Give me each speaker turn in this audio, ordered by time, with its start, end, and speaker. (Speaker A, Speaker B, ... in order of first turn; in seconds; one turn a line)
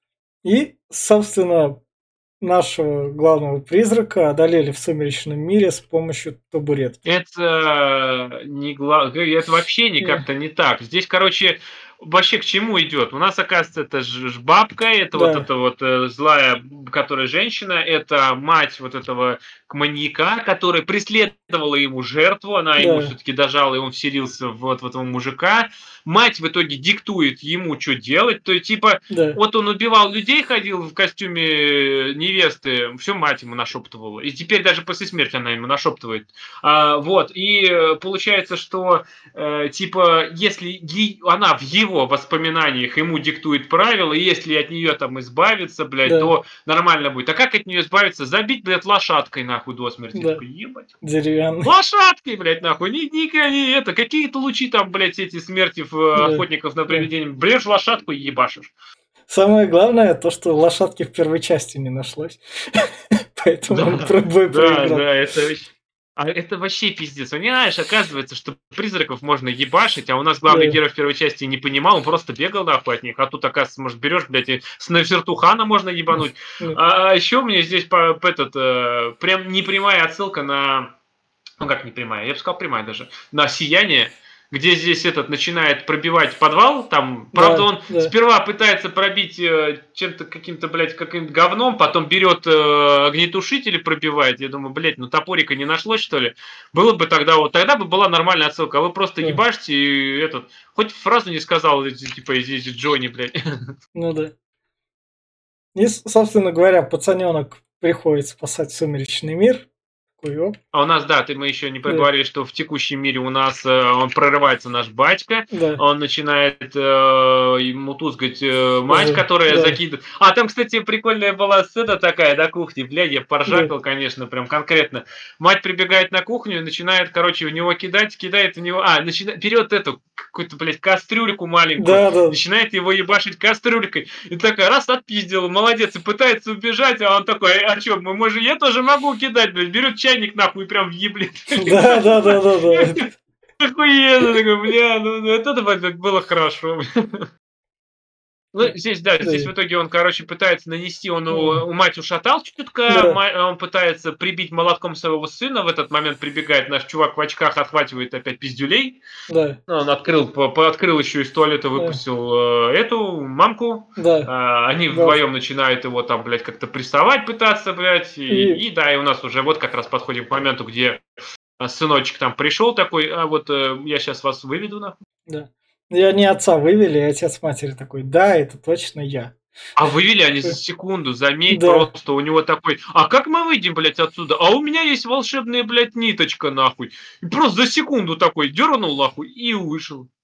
Speaker A: 0.4-1.8
Speaker A: 2.4-7.0
Speaker B: 7.0-50.9
Speaker A: 10.0-10.2
Speaker A: 15.1-15.5
Speaker A: 22.8-23.1
Speaker A: 29.1-29.4
Speaker A: 46.0-46.3
Speaker A: 50.1-50.4
Speaker A: 51.0-51.7
Speaker B: 51.6-58.7
Speaker A: 56.2-57.1
Speaker A: 59.3-65.1
Speaker B: 63.7-80.9
Speaker A: 70.5-70.8
Speaker B: 81.6-103.3
Speaker A: 87.3-88.1
Speaker A: 104.0-104.3
Speaker A: 105.8-110.6
Speaker B: 110.7-143.0
Speaker A: 115.5-115.8
Speaker A: 118.9-119.8
Speaker A: 131.8-132.4
Speaker A: 141.6-143.1
Speaker B: 143.6-147.3
Speaker B: 148.5-159.0
Speaker A: 149.2-149.5
Speaker A: 151.3-151.6
Speaker A: 152.9-153.2
Speaker A: 159.3-159.6
Speaker B: 159.7-171.0
Speaker A: 161.8-162.0
Speaker A: 164.0-164.3
Speaker A: 164.9-165.2
Speaker A: 168.3-168.6
Speaker B: 171.6-175.0
Speaker A: 175.3-179.3
Speaker B: 179.8-190.1
Speaker A: 181.5-181.9